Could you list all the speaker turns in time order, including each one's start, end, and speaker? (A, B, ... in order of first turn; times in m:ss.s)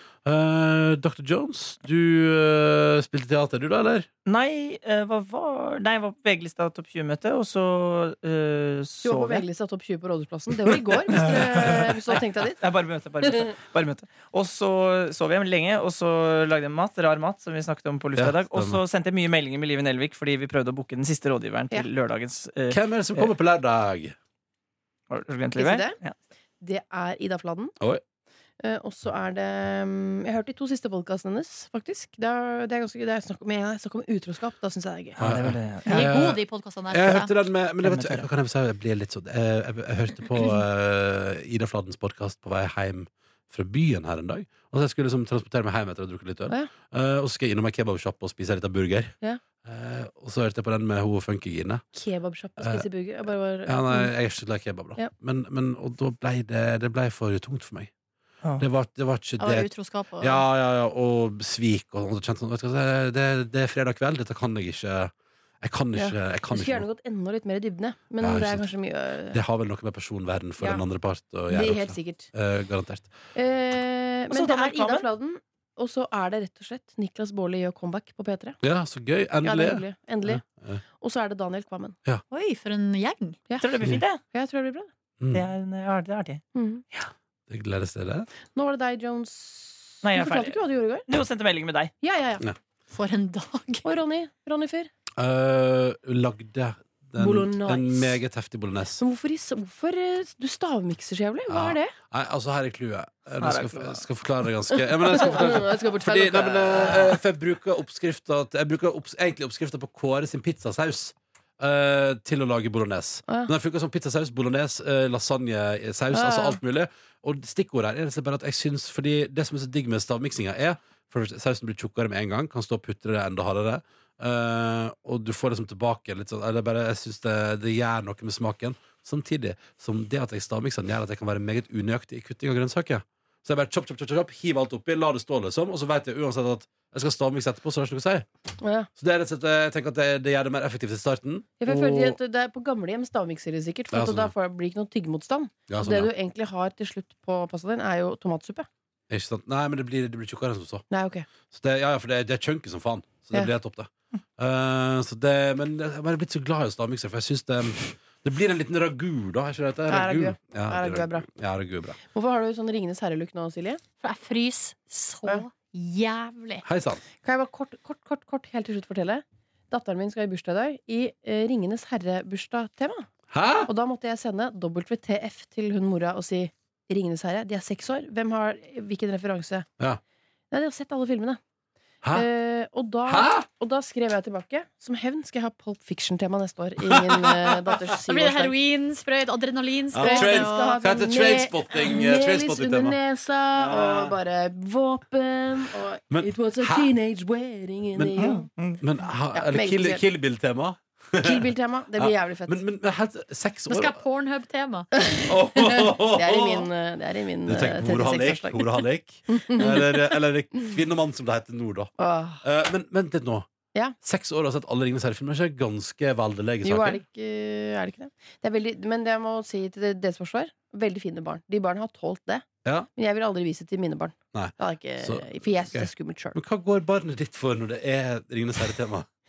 0:00.2-0:04.1 A
0:04.2-0:09.4 B
0:09.0-0:12.6 C
0:11.1-0:23.3 B
0:18.2-0:18.8 A
0:22.7-0:24.1 A
0:25.1-0:26.1 B
0:25.6-0:26.0 C
0:26.6-0:27.8 C
0:28.6-0:35.2 C
0:35.2-0:36.1 B
0:35.2-0:51.8 A
0:35.9-0:37.3 D
0:37.8-0:38.3 B
0:51.9-0:54.1 C
0:52.6-0:52.8 A
0:53.6-0:57.9 A
0:58.6-1:06.8 A
0:59.4-1:00.4 D
1:05.9-1:09.4 C
1:08.2-1:08.7 A
1:09.3-1:13.1 A
1:11.5-1:12.3 C
1:13.3-1:18.6 C
1:14.3-1:15.0 B
1:18.6-1:20.8 A
1:19.4-1:20.4 C
1:21.0-1:22.0 C
1:22.3-1:23.4 D
1:23.5-1:24.9 C
1:23.6-1:24.2 B
1:25.3-1:27.1 B
1:26.5-1:26.8 C
1:27.5-1:28.3 A
1:28.5-1:31.0 C
1:30.0-1:31.9 B
1:32.0-1:32.4 C
1:32.9-1:33.8 D
1:33.8-1:34.9 C
1:35.2-1:39.0 A
1:37.2-1:38.2 C
1:39.0-1:41.9 C
1:41.5-2:18.2 A
1:43.4-1:43.9 B
1:44.7-1:47.2 C
1:53.3-1:53.5 C
1:56.1-1:56.6 C
2:18.6-2:18.9 C
2:19.0-2:22.2 A
2:21.6-2:28.7 C
2:23.9-2:24.3 A
2:25.7-2:26.1 A
2:29.1-2:30.8 A
2:30.9-2:31.2 C
2:31.5-2:42.0 A
2:39.9-2:41.2 C
2:42.0-2:43.8 C
2:44.0-2:46.6 D
2:46.6-2:47.0 A
2:47.2-2:53.1 C
2:53.3-2:53.7 A
2:53.6-2:59.7 C
3:00.5-3:01.4 C
3:02.0-3:02.3 A
3:02.1-3:08.6 C
3:03.1-3:03.5 A
3:06.8-3:07.8 A
3:08.0-3:10.7 D
3:09.9-3:13.0 A
3:10.0-3:18.5 C
3:13.6-3:14.2 A
3:16.1-3:16.9 A
3:18.0-3:18.2 A
3:18.2-3:18.8 B
3:18.8-3:24.0 A
3:19.3-3:20.0 C
3:21.2-3:22.6 C
3:23.7-3:24.9 D
3:24.9-3:30.2 C
3:25.2-3:26.7 A
3:27.5-3:31.9 A
3:32.0-3:32.4 C
3:32.4-3:33.5 A
3:34.0-3:37.0 A
3:36.6-3:46.4 C
3:44.3-3:49.1 A